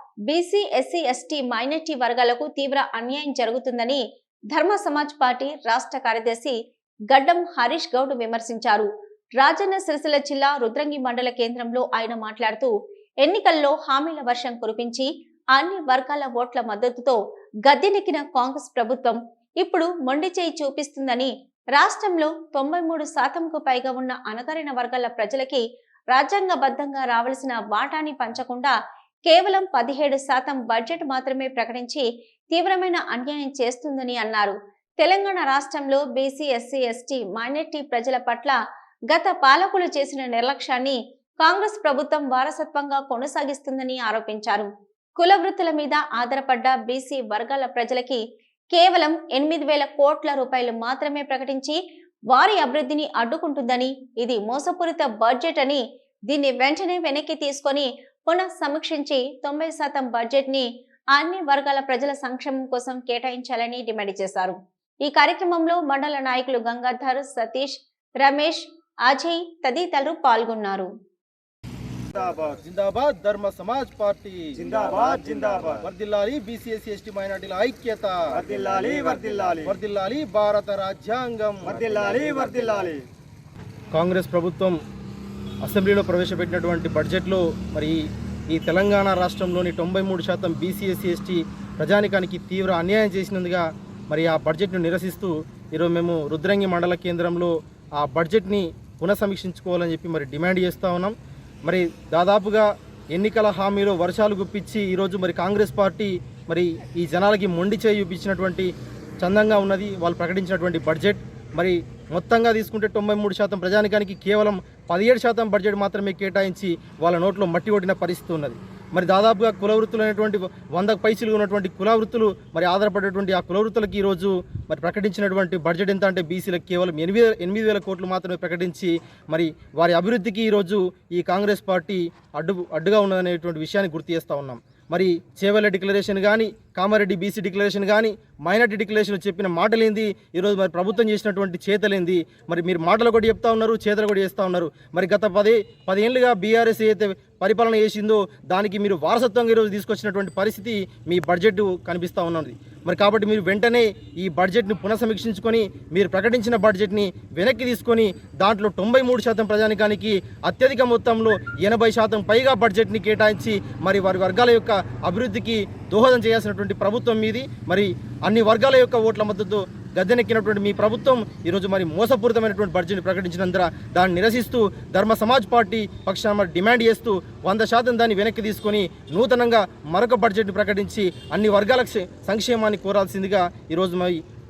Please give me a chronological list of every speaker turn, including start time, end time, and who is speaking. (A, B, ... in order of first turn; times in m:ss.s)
0:00.3-0:06.6 A
0:07.1-0:28.7 A
0:29.3-0:38.6 A
0:39.1-0:51.8 A
0:52.3-1:10.9 A
1:12.2-1:12.6 B
1:12.6-1:14.6 C
1:14.6-1:15.8 B
1:15.8-1:18.4 C
1:18.4-1:19.7 B
1:19.6-1:22.1 C
1:21.7-1:23.0 B
1:23.9-1:24.8 C
1:25.6-1:41.1 C
1:41.7-3:04.2 C